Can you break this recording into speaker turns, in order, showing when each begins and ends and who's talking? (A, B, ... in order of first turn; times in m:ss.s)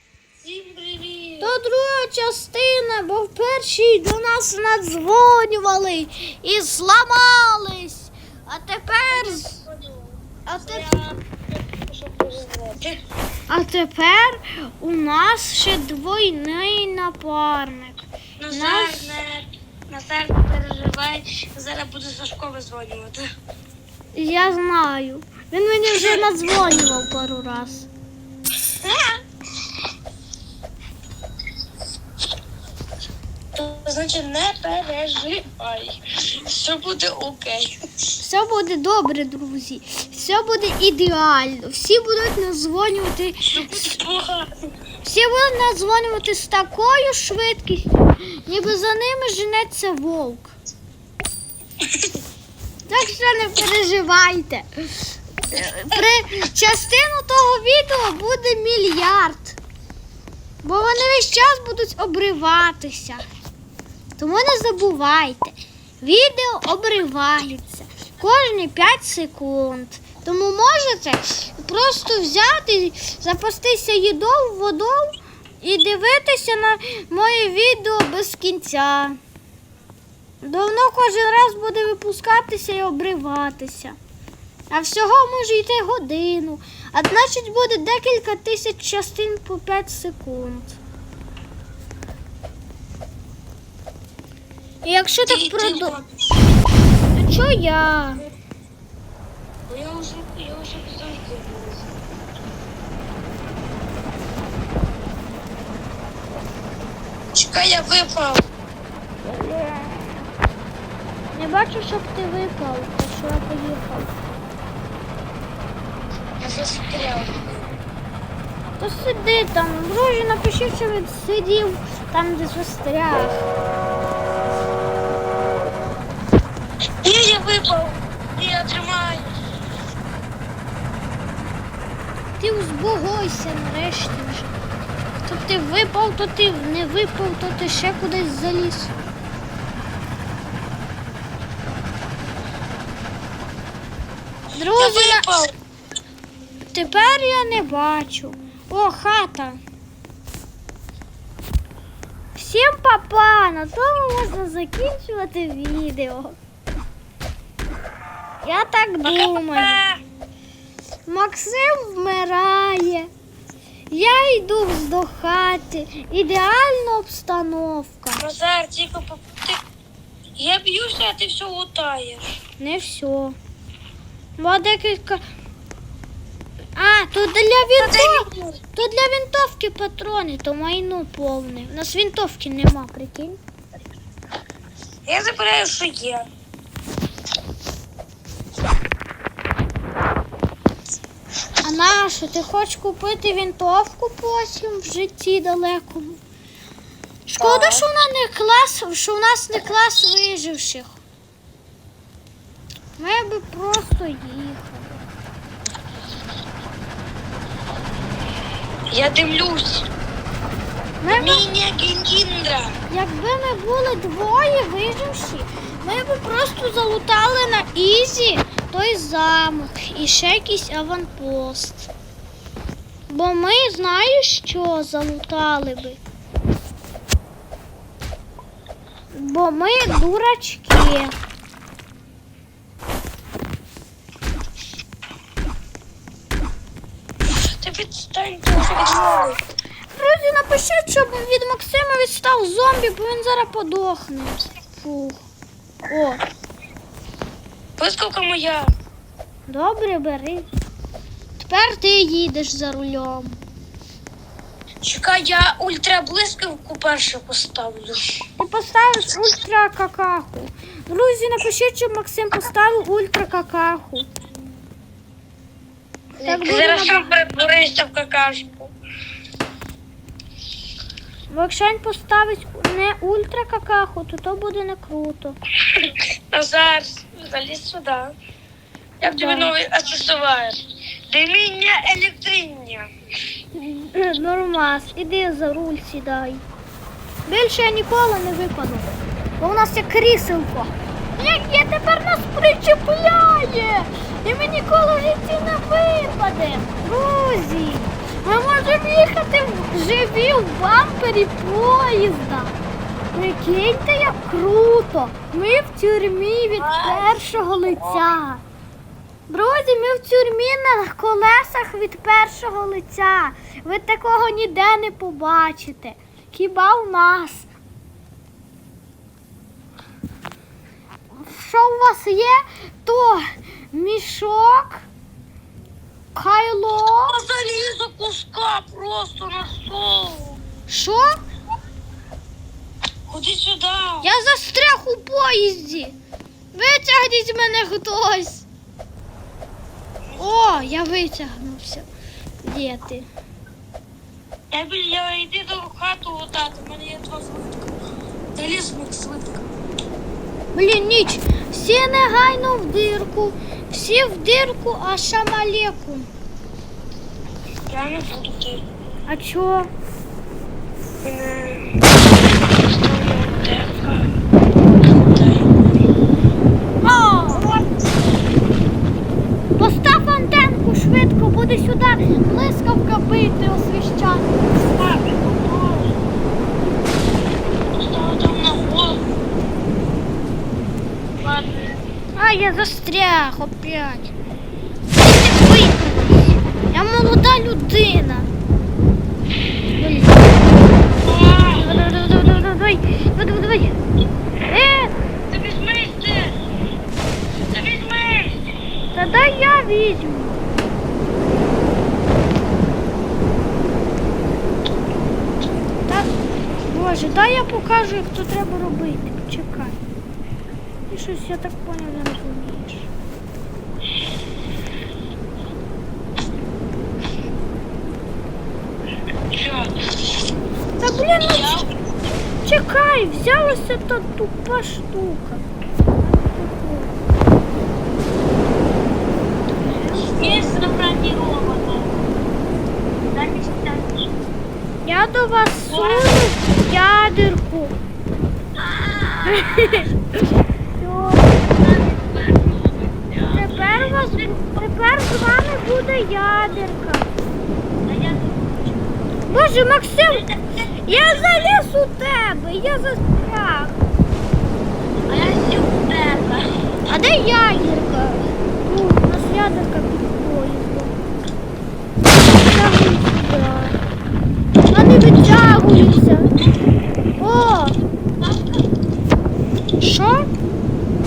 0:00.4-0:01.5 A
0:01.4-0:09.6 B
0:09.1-0:13.0 A
0:10.5-0:11.0 B
0:13.5-0:19.2 B
0:18.4-0:23.2 A
0:24.1-0:27.9 B
0:25.9-0:26.2 A
0:33.6-0:37.8 A
0:38.2-0:44.0 B
0:43.5-0:44.5 A
0:45.0-0:50.6 B
0:52.9-0:59.6 B
1:00.6-1:03.2 B
1:04.2-1:19.2 B
1:20.4-1:24.0 B
1:24.7-1:30.8 B
1:34.8-1:36.0 B
1:35.3-1:36.5 A
1:37.2-1:38.2 B
1:39.7-1:41.9 A
1:47.3-1:48.5 A
1:49.3-1:50.0 B
1:51.3-1:54.1 B
1:56.4-1:57.7 A
1:58.8-2:03.4 B
2:07.0-2:09.4 A
2:12.4-2:14.6 B
2:15.2-2:18.9 B
2:24.6-2:25.3 B
2:24.6-2:25.5 A
2:26.7-2:29.6 B
2:32.4-2:36.4 B
2:38.4-2:39.7 B
2:39.0-2:40.0 A
2:41.1-2:43.1 B
2:43.9-2:48.2 B
2:48.2-2:49.6 A
2:50.4-2:52.4 A
2:52.6-2:53.4 B
2:54.4-2:55.2 B
2:56.8-3:03.4 B
2:57.8-2:58.6 A
3:05.1-3:06.3 A
3:11.6-3:16.2 B
3:17.3-3:17.8 A
3:17.4-3:21.0 B
3:23.0-3:25.0 B
3:28.9-3:29.9 A
3:31.0-3:31.4 B
3:31.1-3:32.8 A
3:32.9-3:41.9 B
3:43.1-3:46.0 B
3:49.1-3:51.2 B
3:57.4-3:59.4 A
3:59.9-4:05.2 B
4:05.9-4:06.2 B
4:07.8-4:08.7 A
4:09.5-4:10.4 B
4:11.4-4:13.4 B
4:14.8-4:18.2 A
4:18.4-4:24.1 B
4:26.2-4:27.1 B
4:26.2-4:28.7 A
4:31.3-4:35.4 B
4:35.7-4:38.2 A
4:39.0-4:42.9 A
4:39.0-4:39.5 B
4:43.5-4:46.4 B
4:47.3-5:02.6 B
5:03.1-5:08.4 B
5:06.6-5:07.2 A
5:07.8-5:08.1 A
5:09.3-5:17.5 B
5:21.1-5:24.9 B
5:26.2-5:27.2 B
5:27.1-5:30.4 A
5:30.7-5:31.2 B
5:33.1-5:34.1 A
5:34.0-5:36.0 B
5:36.5-5:38.5 B
5:40.2-5:41.9 B
5:42.4-5:43.1 B
5:44.5-5:47.7 A
5:48.4-5:49.5 A
5:50.5-5:56.1 B
5:57.7-5:58.6 A
5:59.1-5:59.7 B
6:01.0-6:01.7 A
6:02.6-6:04.1 A
6:04.9-6:05.6 A
6:06.8-6:07.6 B
6:07.3-6:07.7 A
6:09.6-6:14.4 B
6:14.6-6:15.9 A
6:17.8-6:19.0 A
6:21.2-6:21.8 A
6:22.2-6:24.1 B
6:25.0-6:28.3 B
6:29.8-6:30.4 B
6:31.0-6:31.7 A
6:31.6-6:33.7 B
6:34.5-6:35.0 B
6:35.3-6:36.4 A
6:37.5-6:38.4 A
6:38.9-6:40.4 B
6:45.9-6:49.8 B
6:50.9-6:52.9 B
6:59.4-6:59.7 A
7:00.8-7:01.6 B
7:01.2-7:01.7 A
7:02.4-7:05.4 B
7:06.1-7:06.9 B
7:09.5-7:10.6 B
7:09.9-7:11.9 A
7:13.1-7:14.0 A
7:14.8-7:17.8 B
7:15.7-7:16.2 A
7:18.6-7:19.9 A
7:19.3-7:19.9 B
7:20.8-7:21.3 B
7:21.2-7:24.4 A
7:23.3-7:27.1 B
7:27.9-7:28.9 A
7:29.3-7:30.3 B
7:30.1-7:31.5 A
7:30.8-7:33.8 B
7:35.1-7:36.5 A
7:36.8-7:41.0 B
7:42.2-7:43.8 B
7:44.7-7:46.3 B
7:45.3-7:46.1 A
7:47.2-7:47.8 B
7:48.2-7:48.6 A
7:49.8-7:50.4 B